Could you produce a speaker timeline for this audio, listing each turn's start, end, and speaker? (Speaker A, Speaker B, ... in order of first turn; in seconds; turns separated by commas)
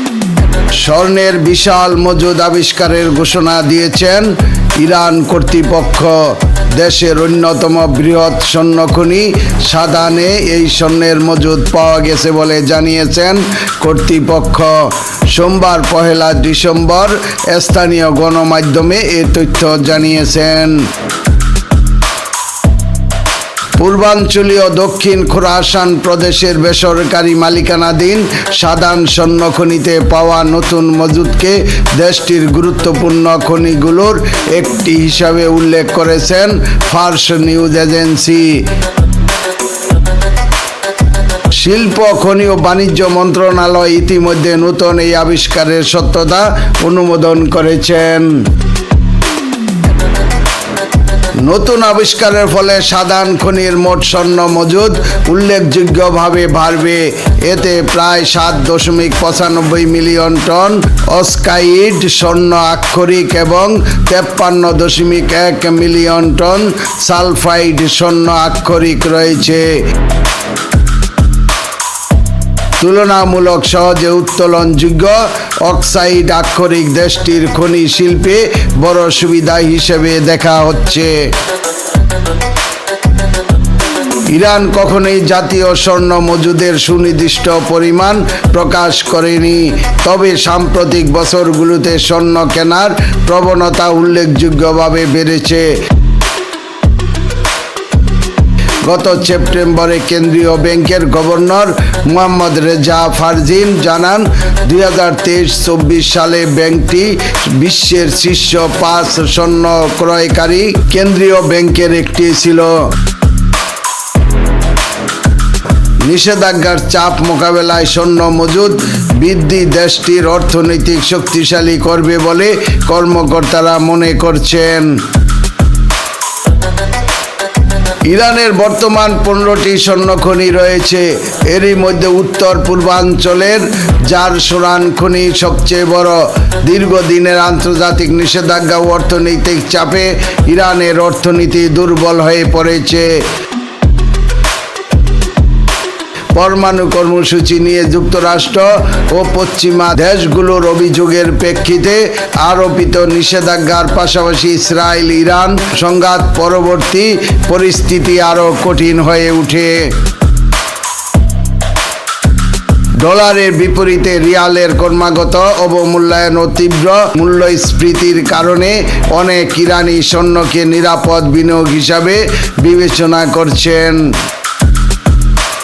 Speaker A: 0.8-20.8, Speaker A: 23.8-38.6, Speaker A: 41.6-48.4, Speaker A: 51.4-69.7, Speaker A: 72.8-81.1, Speaker A: 84.3-95.7, Speaker A: 98.8-112.8, Speaker A: 116.0-124.9, Speaker A: 128.1-143.2, Speaker A: 146.3-159.9, Speaker A: 163.0-174.1